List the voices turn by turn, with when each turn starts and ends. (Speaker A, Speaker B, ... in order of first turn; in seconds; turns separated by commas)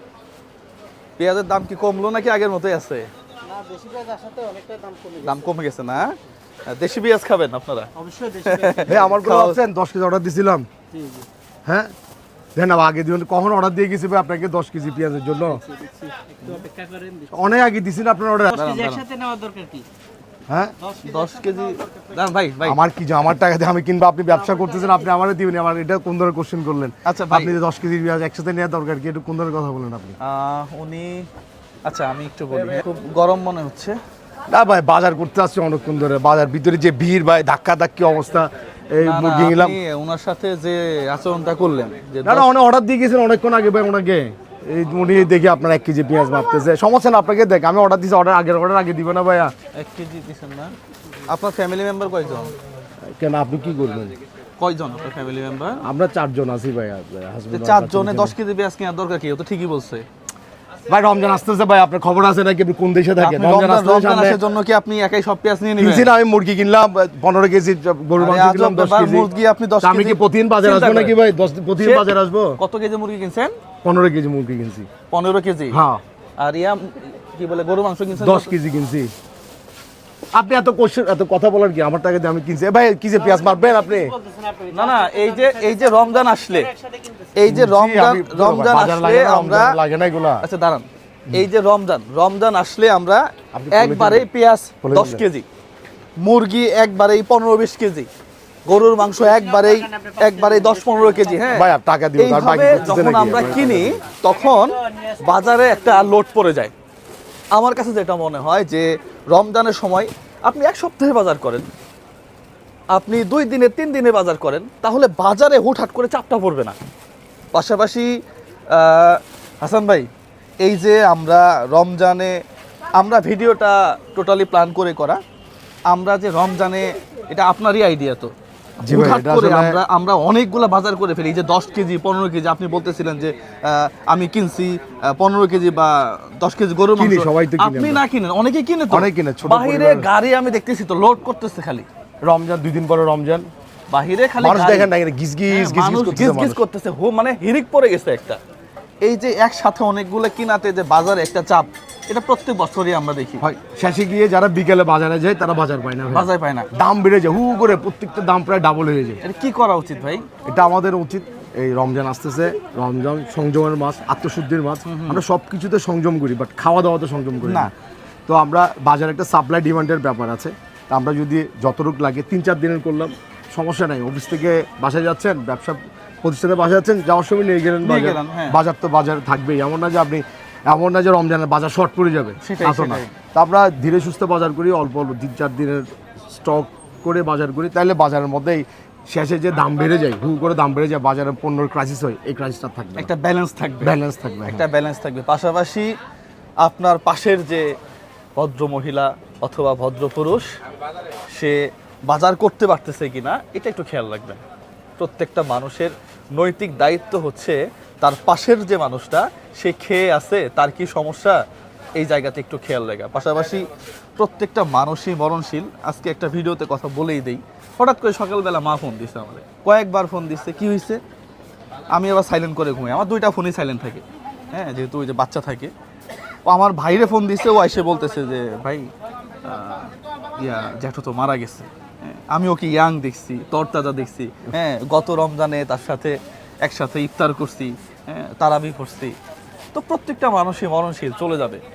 Speaker A: 1.2-3.1, Speaker B: 3.5-5.3, Speaker A: 5.2-9.6, Speaker B: 8.0-8.8, Speaker C: 8.9-10.7, Speaker B: 10.9-11.2, Speaker C: 11.7-11.9, Speaker C: 12.5-15.6, Speaker B: 15.7-17.3, Speaker C: 17.3-18.6, Speaker A: 18.5-19.1, Speaker B: 18.6-19.9, Speaker C: 20.5-20.7, Speaker A: 21.0-22.8, Speaker C: 22.6-30.2, Speaker A: 27.1-27.5, Speaker A: 30.2-31.3, Speaker A: 31.8-34.0, Speaker C: 34.5-39.8, Speaker A: 39.0-42.5, Speaker C: 42.2-49.5, Speaker A: 49.7-50.7, Speaker A: 51.3-52.5, Speaker C: 53.0-54.1, Speaker A: 54.6-55.9, Speaker C: 55.8-58.3, Speaker A: 57.5-60.0, Speaker C: 60.9-64.4, Speaker A: 63.2-66.1, Speaker C: 65.8-69.3, Speaker A: 68.2-71.1, Speaker C: 69.8-72.6, Speaker A: 71.8-72.1, Speaker A: 72.6-73.5, Speaker C: 73.8-74.9, Speaker A: 75.1-75.8, Speaker C: 75.7-76.0, Speaker A: 76.4-78.5, Speaker C: 78.1-79.1, Speaker C: 80.3-84.2, Speaker B: 83.4-86.0, Speaker A: 84.7-86.7, Speaker B: 86.6-87.3, Speaker A: 87.3-89.8, Speaker C: 87.4-90.4, Speaker A: 90.4-95.5, Speaker C: 93.5-94.3, Speaker C: 94.8-95.2, Speaker A: 96.2-98.1, Speaker A: 98.7-101.7, Speaker C: 101.5-104.0, Speaker A: 102.2-106.7, Speaker A: 107.5-111.7, Speaker A: 112.9-116.8, Speaker A: 117.5-120.1, Speaker A: 120.6-122.4, Speaker A: 123.0-125.2, Speaker A: 125.9-128.3, Speaker C: 128.8-129.8, Speaker A: 128.9-141.8, Speaker C: 136.9-138.0, Speaker C: 138.9-140.1, Speaker C: 142.2-143.5, Speaker A: 143.9-144.9, Speaker C: 144.4-146.6, Speaker A: 145.5-148.4, Speaker A: 149.0-153.4, Speaker C: 153.4-159.2, Speaker A: 156.1-156.7, Speaker A: 159.2-160.2, Speaker C: 160.4-167.7, Speaker A: 164.8-165.2, Speaker A: 167.4-167.7, Speaker C: 168.3-193.1, Speaker A: 177.8-178.6, Speaker A: 182.4-183.1, Speaker A: 193.0-193.9, Speaker C: 193.8-194.6, Speaker A: 194.5-195.9, Speaker A: 196.6-197.7, Speaker A: 198.3-200.5, Speaker A: 201.3-204.4, Speaker A: 205.0-211.4, Speaker A: 211.9-221.0, Speaker A: 221.9-225.7, Speaker A: 226.4-228.9, Speaker A: 229.4-239.2, Speaker A: 239.7-241.6